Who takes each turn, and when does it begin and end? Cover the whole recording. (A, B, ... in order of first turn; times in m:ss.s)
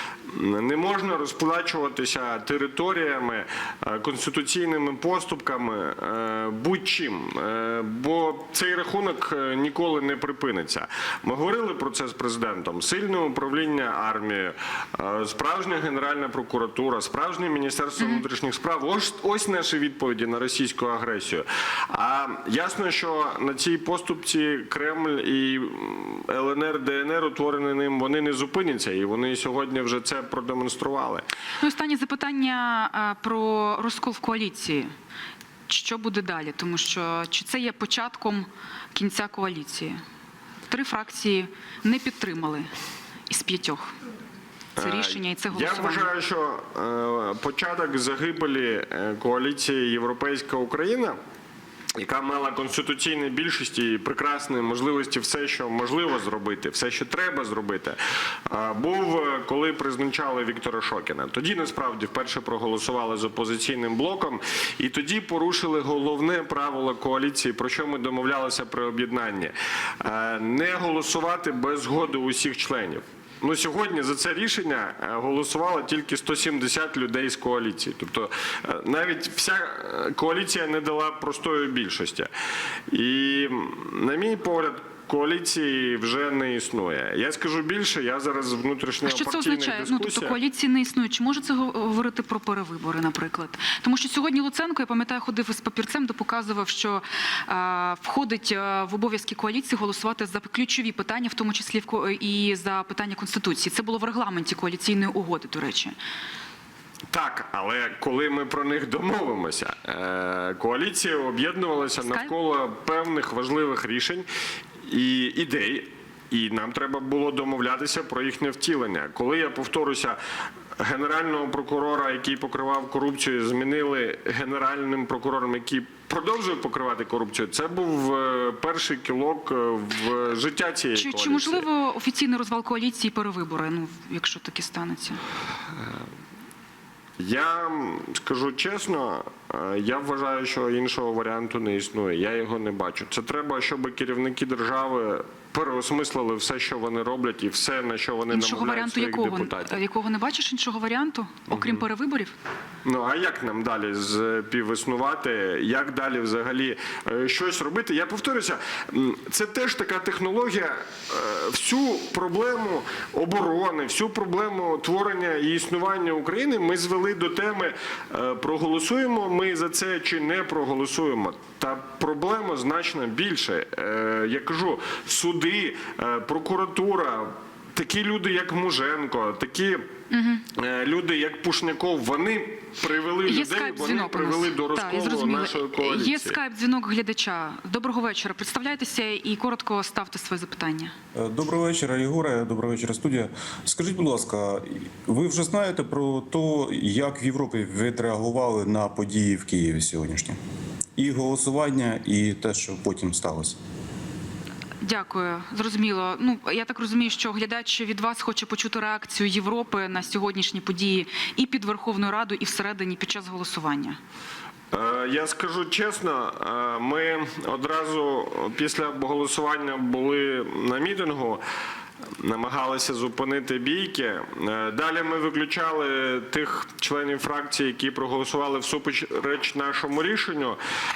0:00.3-0:31.2 A
0:31.6-0:34.9 B
0:35.7-0:40.0 B
0:40.7-0:42.7 B
0:43.3-0:44.0 B
0:44.8-0:51.2 A
0:44.8-0:46.1 B
0:52.0-0:58.0 A
0:58.5-1:22.3 A
1:22.9-1:30.4 A
1:29.0-1:46.0 B
1:47.1-1:54.3 A
1:52.0-1:52.3 B
1:54.9-2:00.2 A
2:00.8-2:11.7 A
2:10.9-2:15.2 B
2:17.2-2:29.8 A
2:28.3-2:32.4 B
2:31.5-2:31.8 A
2:32.8-2:59.8 A
3:00.1-3:00.4 B
3:00.6-3:06.4 A
3:03.2-3:10.9 B
3:11.2-3:20.4 C
3:21.0-3:23.6 C
3:24.8-3:34.0 B
3:34.7-3:41.4 A
3:42.2-3:50.6 A